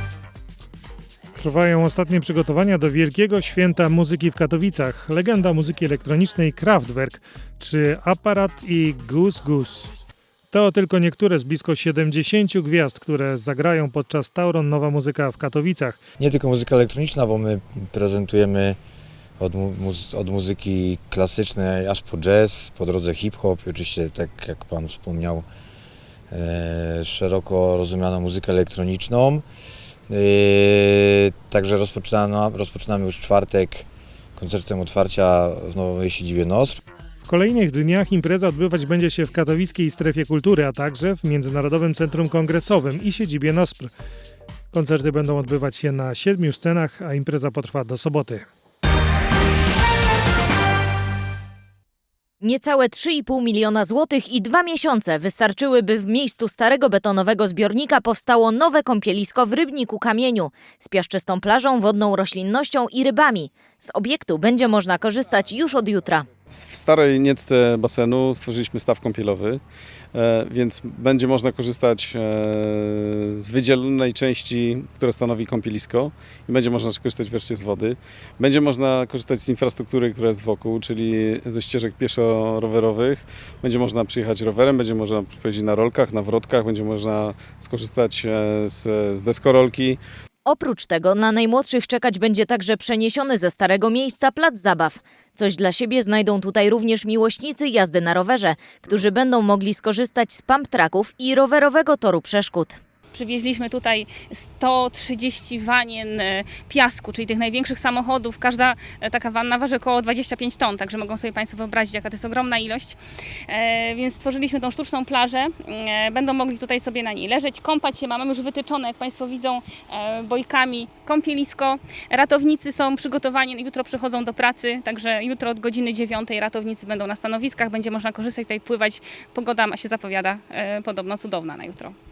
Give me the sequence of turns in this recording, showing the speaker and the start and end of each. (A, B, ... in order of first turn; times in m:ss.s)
0:01.4-0:09.9 A
0:10.5-0:16.0 A
0:16.2-0:18.8 B
0:19.4-0:25.4 B
0:26.3-0:29.4 B
0:30.1-0:33.8 B
0:34.4-0:36.8 B
0:37.2-0:43.9 A
0:44.7-0:48.4 A
0:52.4-1:06.3 C
1:06.5-1:09.6 D
1:10.1-1:30.0 D
1:30.5-1:42.8 C
1:43.1-1:53.0 E
1:53.5-2:11.9 E